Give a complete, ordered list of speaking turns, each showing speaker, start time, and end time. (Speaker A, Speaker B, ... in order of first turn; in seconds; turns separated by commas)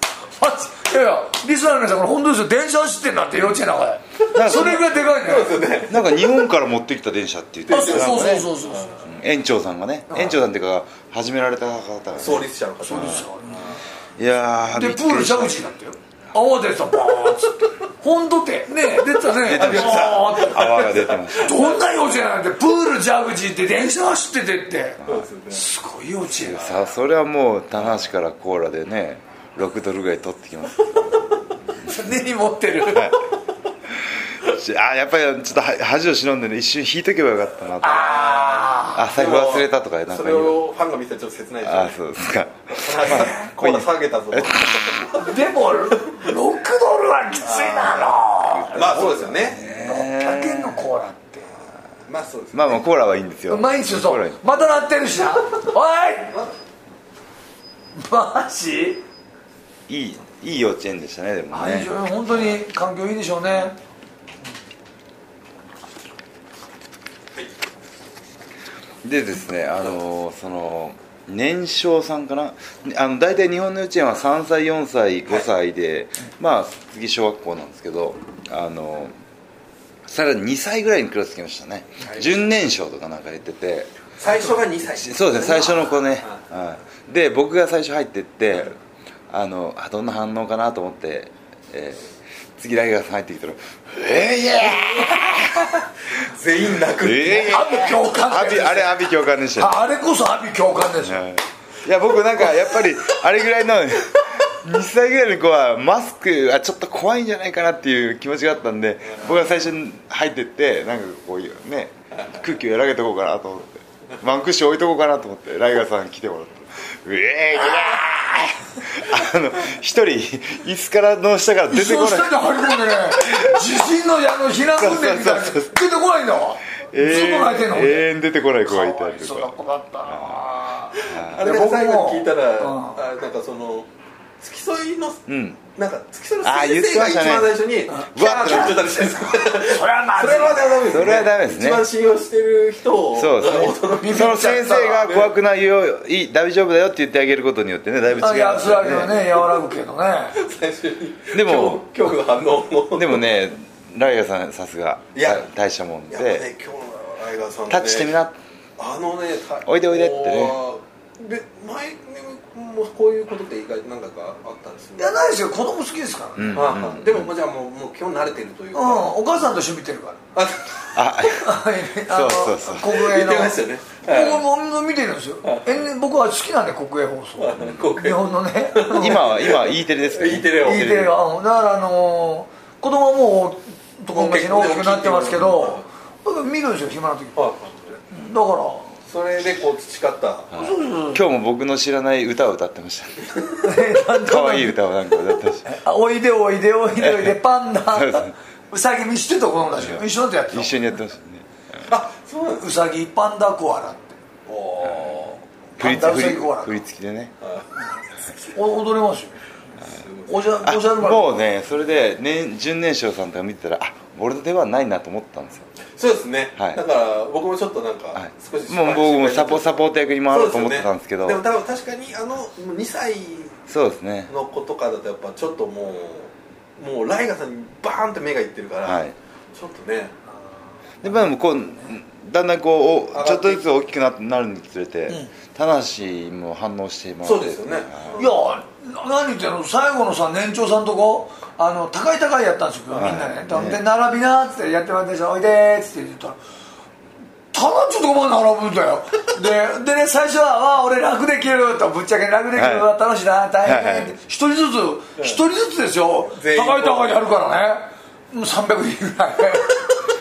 Speaker A: 0.4-5.6, Speaker B: 4.3-4.9, Speaker C: 4.5-6.2, Speaker B: 5.9-8.5, Speaker C: 7.7-9.0, Speaker A: 7.7-9.0, Speaker B: 9.0-13.2, Speaker A: 10.1-10.4, Speaker C: 12.2-13.8, Speaker A: 12.8-13.8, Speaker B: 14.2-15.7, Speaker A: 14.7-26.7, Speaker B: 19.4-21.6, Speaker C: 19.4-22.0, Speaker C: 25.1-25.6, Speaker B: 26.4-31.4, Speaker A: 31.8-33.1, Speaker B: 32.9-33.2, Speaker B: 34.0-38.4, Speaker A: 37.8-39.1, Speaker C: 38.3-42.0, Speaker B: 38.9-40.6, Speaker B: 41.6-45.1, Speaker C: 42.8-45.4, Speaker A: 43.0-43.5, Speaker A: 45.1-51.5, Speaker C: 47.4-48.2, Speaker B: 48.5-50.8, Speaker C: 48.7-49.6, Speaker C: 52.1-52.9, Speaker B: 52.5-54.4, Speaker A: 53.5-56.4, Speaker A: 57.9-59.0, Speaker B: 59.9-61.9, Speaker A: 61.5-63.8, Speaker B: 69.0-79.1, Speaker B: 80.1-84.0, Speaker C: 82.0-82.3, Speaker C: 84.2-86.4, Speaker B: 84.9-88.8, Speaker B: 89.3-92.0, Speaker B: 92.6-95.8, Speaker C: 96.2-97.8, Speaker B: 96.9-99.8, Speaker A: 97.2-99.0, Speaker A: 99.6-101.2, Speaker B: 101.0-123.7, Speaker A: 121.7-128.1, Speaker B: 124.8-125.8, Speaker B: 126.9-129.5, Speaker A: 128.7-133.0, Speaker B: 130.1-130.4, Speaker C: 131.0-133.9, Speaker B: 131.0-131.5, Speaker C: 134.4-145.3, Speaker B: 135.3-135.6, Speaker B: 136.4-137.6, Speaker A: 137.9-138.9, Speaker B: 138.1-139.3, Speaker A: 139.4-140.7, Speaker B: 140.9-141.9, Speaker B: 143.1-149.3, Speaker A: 143.9-145.1, Speaker A: 148.2-150.4, Speaker C: 150.4-153.3, Speaker B: 151.3-151.8, Speaker B: 152.9-156.5, Speaker C: 155.1-155.4, Speaker C: 156.1-158.2, Speaker B: 157.7-158.4, Speaker C: 158.8-165.2, Speaker B: 159.7-160.6, Speaker A: 165.0-166.7, Speaker B: 166.4-167.3, Speaker C: 166.5-169.2, Speaker A: 168.7-170.2, Speaker C: 170.3-170.8, Speaker B: 170.9-173.0, Speaker A: 171.3-179.3, Speaker C: 172.9-174.4, Speaker C: 175.4-175.8, Speaker C: 177.4-180.9, Speaker B: 178.9-181.1, Speaker A: 180.6-187.5, Speaker C: 184.1-185.8, Speaker C: 187.4-187.7, Speaker A: 188.1-188.9, Speaker C: 189.1-190.5, Speaker B: 190.5-193.4, Speaker A: 190.6-191.2, Speaker A: 193.6-194.8, Speaker B: 194.1-195.7, Speaker A: 195.6-200.8, Speaker B: 197.0-197.4, Speaker B: 197.9-198.3, Speaker B: 199.8-201.4, Speaker C: 201.9-202.7, Speaker A: 202.6-204.2, Speaker C: 204.5-205.4, Speaker B: 204.8-205.2, Speaker B: 205.8-207.3, Speaker A: 205.8-206.8, Speaker A: 208.5-209.4, Speaker C: 209.8-210.6, Speaker A: 210.3-211.3, Speaker B: 210.6-215.7, Speaker C: 216.0-223.6, Speaker B: 216.6-216.8, Speaker B: 218.1-221.4, Speaker B: 223.7-224.3, Speaker C: 224.3-229.0, Speaker B: 228.8-229.1, Speaker C: 229.5-230.1, Speaker B: 231.0-238.2, Speaker C: 233.1-233.6, Speaker C: 237.2-238.4, Speaker A: 238.2-246.4, Speaker B: 242.9-243.8, Speaker A: 247.5-259.9, Speaker B: 252.6-252.9, Speaker B: 253.6-254.1, Speaker C: 256.3-257.1